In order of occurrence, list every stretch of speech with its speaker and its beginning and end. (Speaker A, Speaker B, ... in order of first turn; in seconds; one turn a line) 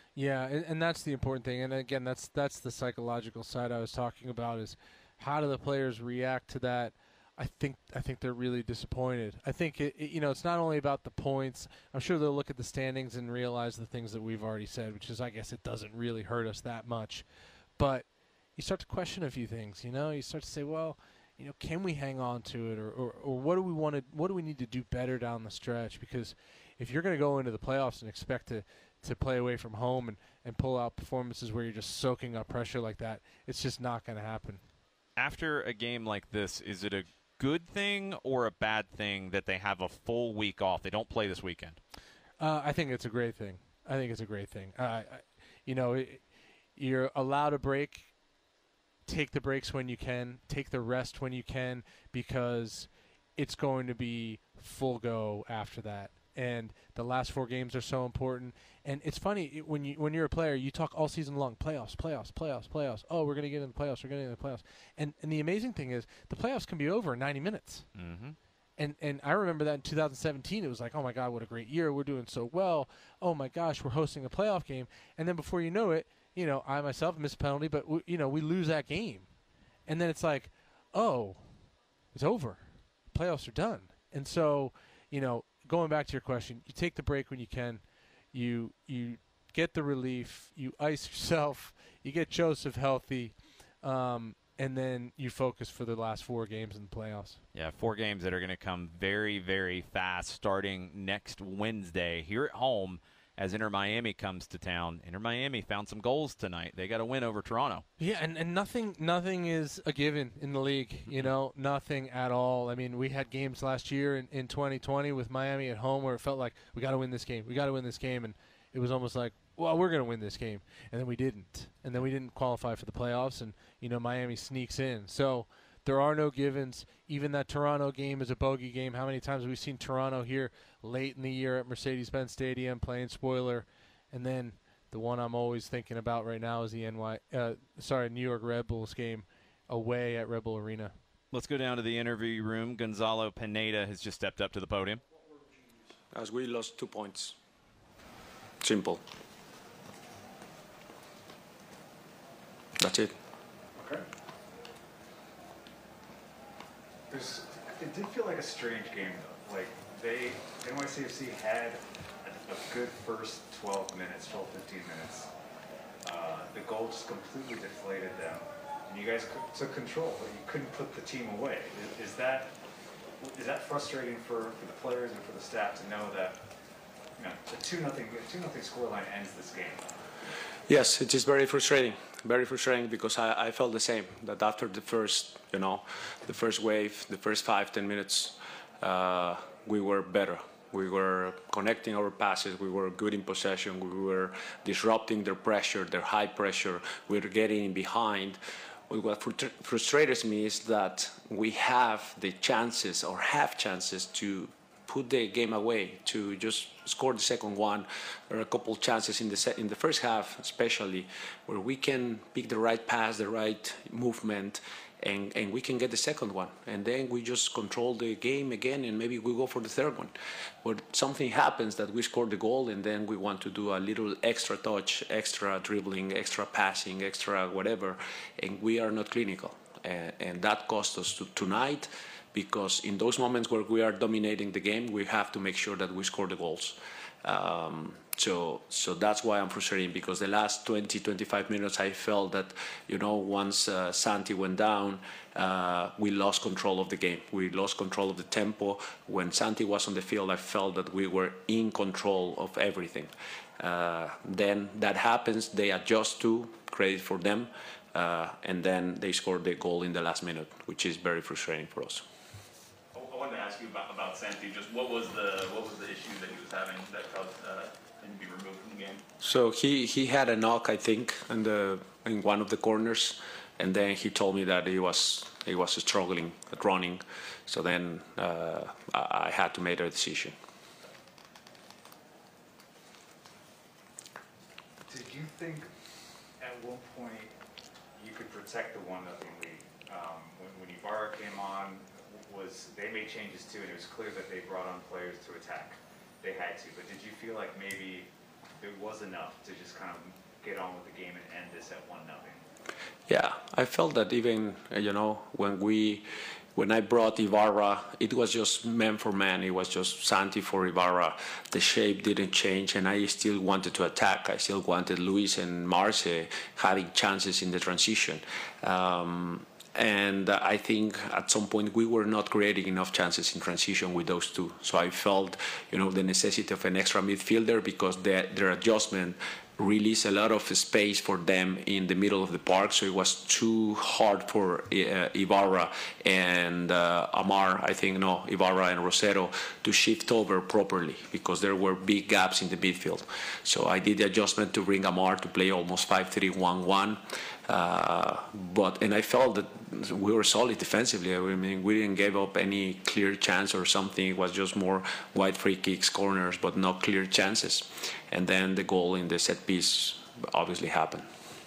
Speaker A: 0.2-17.3
Speaker A: 17.8-34.6
Speaker B: 35.2-41.8
Speaker A: 42.4-46.2
Speaker A: 46.8-48.1
Speaker A: 49.1-67.9
Speaker B: 68.0-68.4
Speaker A: 68.8-79.3
Speaker A: 79.9-81.5
Speaker A: 82.1-97.4
Speaker B: 97.5-107.8
Speaker A: 108.0-140.9
Speaker B: 141.3-145.0
Speaker C: 146.1-147.4
Speaker C: 148.6-149.0
Speaker C: 152.8-153.2
Speaker D: 157.1-165.3
Speaker D: 166.0-172.5
Speaker D: 173.2-176.4
Speaker D: 177.2-179.8
Speaker C: 180.7-262.1
Speaker E: 262.9-269.0
Speaker C: 269.2-280.4
Speaker D: 284.9-285.7
Speaker D: 286.4-287.3
Speaker D: 288.0-298.1
Speaker D: 298.6-302.4
Speaker C: 303.1-361.1